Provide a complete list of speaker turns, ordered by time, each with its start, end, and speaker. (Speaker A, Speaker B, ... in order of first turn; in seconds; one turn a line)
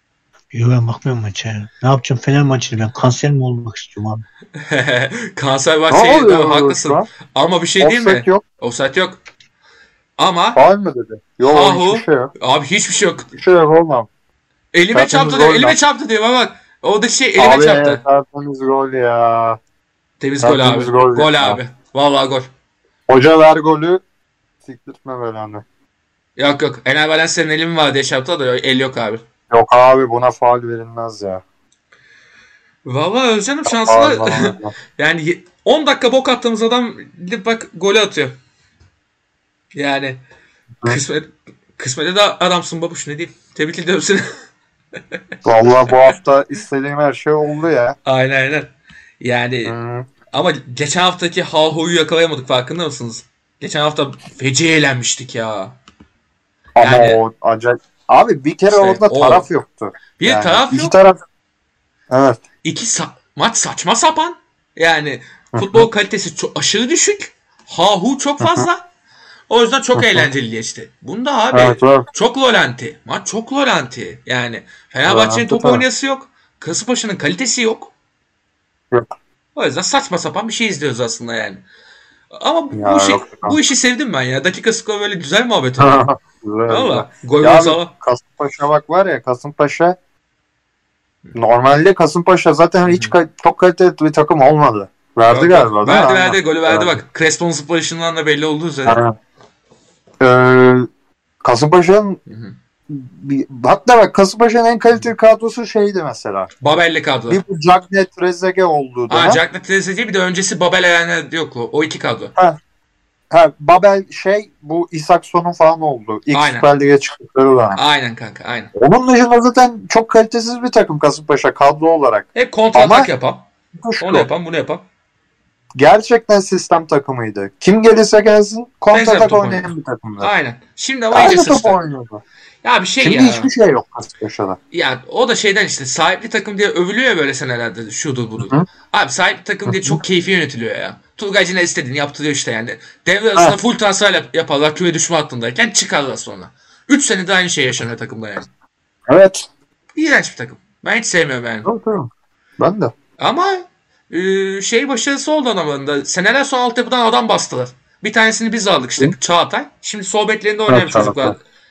Speaker A: 0.5-4.2
Speaker B: 4.6-9.2
Speaker C: 5.9-7.1
Speaker C: 7.8-8.4
Speaker B: 10.2-10.6
Speaker C: 10.6-12.3
Speaker B: 11.5-13.3
Speaker C: 13.3-14.1
Speaker B: 14.7-18.0
Speaker C: 14.9-15.8
Speaker C: 17.4-19.6
Speaker B: 20.2-22.5
Speaker C: 20.4-21.6
Speaker C: 23.1-24.0
Speaker C: 24.7-25.6
Speaker B: 26.4-29.2
Speaker C: 29.5-31.4
Speaker B: 32.9-38.4
Speaker C: 33.7-34.7
Speaker B: 39.8-40.2
Speaker B: 40.9-44.4
Speaker C: 45.4-48.0
Speaker B: 48.0-49.7
Speaker C: 49.7-50.1
Speaker B: 50.3-55.8
Speaker C: 56.8-61.2
Speaker B: 56.8-57.2
Speaker B: 58.7-59.5
Speaker B: 60.2-61.0
Speaker C: 62.1-62.4
Speaker B: 62.6-68.8
Speaker C: 65.6-65.9
Speaker C: 68.4-68.7
Speaker B: 69.5-77.9
Speaker C: 70.0-70.3
Speaker C: 71.5-72.1
Speaker C: 75.1-75.8
Speaker B: 79.6-81.6
Speaker B: 82.3-86.0
Speaker C: 82.8-83.6
Speaker C: 85.8-90.0
Speaker B: 86.7-87.9
Speaker C: 91.3-97.0
Speaker B: 92.9-93.1
Speaker B: 95.3-99.0
Speaker C: 98.9-99.1
Speaker C: 100.2-100.9
Speaker C: 101.4-102.2
Speaker B: 102.3-102.5
Speaker C: 102.9-106.5
Speaker B: 106.6-107.4
Speaker C: 107.3-109.4
Speaker B: 109.1-112.3
Speaker C: 113.3-117.8
Speaker B: 116.3-116.7
Speaker B: 117.8-118.7
Speaker C: 118.8-123.1
Speaker B: 122.3-123.5
Speaker C: 123.8-124.3
Speaker B: 124.0-124.8
Speaker C: 125.8-130.3
Speaker B: 128.9-131.8
Speaker C: 131.1-132.2
Speaker B: 132.6-133.5
Speaker C: 133.0-134.6
Speaker B: 134.7-148.5
Speaker C: 139.7-140.0
Speaker C: 149.1-149.4
Speaker B: 150.0-151.7
Speaker C: 151.7-152.9
Speaker B: 153.2-161.4
Speaker C: 160.7-161.3